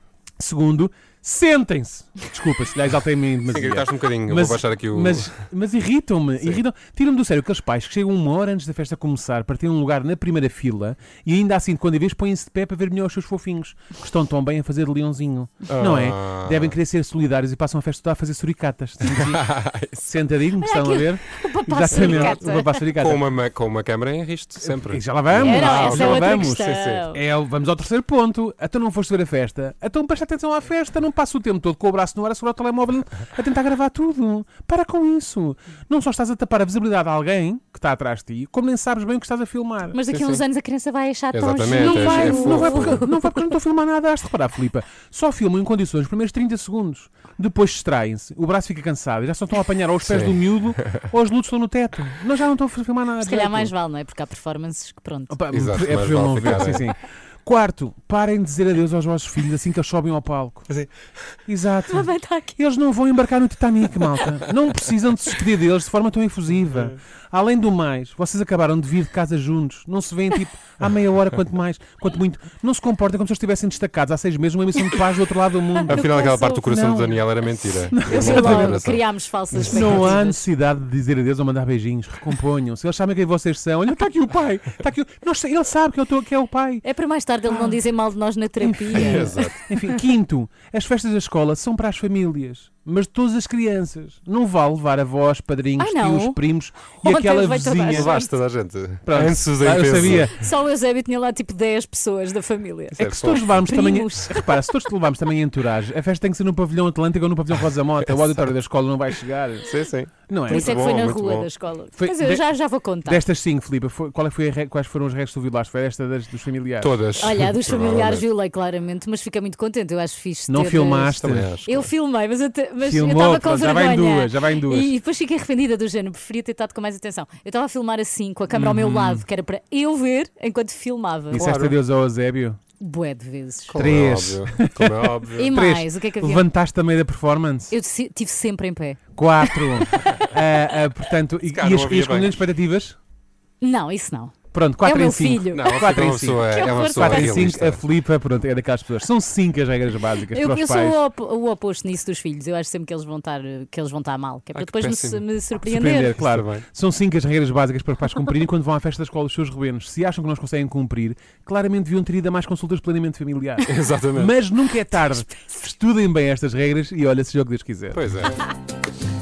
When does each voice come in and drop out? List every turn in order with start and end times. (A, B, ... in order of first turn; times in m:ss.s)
0:00.4-0:23.2 A
0:03.4-0:05.5 B
0:15.6-0:16.8 B
0:19.0-0:20.1 B
0:20.6-0:22.8 C
0:21.9-0:27.0 B
0:24.6-0:40.0 A
0:25.3-0:27.2 C
0:39.9-0:43.5 C
0:40.1-0:40.4 B
0:41.3-0:43.0 B
0:41.7-0:53.7 A
0:50.0-0:51.1 B
0:53.2-0:55.4 C
0:55.3-1:00.7 A
0:55.5-0:56.9 B
1:00.7-1:01.1 B
1:01.5-1:17.2 A
1:01.9-1:02.6 C
1:15.9-1:20.2 B
1:15.9-1:16.6 C
1:17.9-1:18.8 A
1:18.0-1:20.4 C
1:19.5-1:26.8 A
1:26.8-1:29.5 C
1:27.4-1:27.8 A
1:28.6-1:38.1 A
1:28.9-1:29.6 B
1:35.8-1:36.4 C
1:37.0-1:38.3 C
1:37.9-1:40.3 B
1:39.0-1:40.3 A
1:40.0-1:44.5 C
1:42.9-1:43.7 B
1:43.0-1:49.7 A
1:49.6-1:51.5 B
1:50.3-1:50.9 A
1:50.5-1:53.2 C
1:51.9-1:56.9 A
1:56.8-1:58.2 B
1:57.2-2:11.5 C
2:00.5-2:01.5 A
2:01.2-2:01.9 B
2:02.8-2:04.9 A
2:08.5-2:09.2 A
2:11.3-2:12.6 A
2:11.4-2:11.8 B
2:12.8-2:13.8 C
2:13.7-2:15.6 B
2:13.7-2:17.7 A
2:15.4-2:16.5 C
2:17.7-2:20.0 C
2:19.2-2:23.0 A
2:21.5-2:22.4 B
2:23.6-2:27.4 C
2:24.5-2:31.0 A
2:25.5-2:27.8 B
2:30.3-2:36.2 C
2:34.5-2:35.2 B
2:35.6-2:48.0 A
2:36.2-2:36.7 B
2:43.6-2:44.4 B
2:47.9-2:48.4 B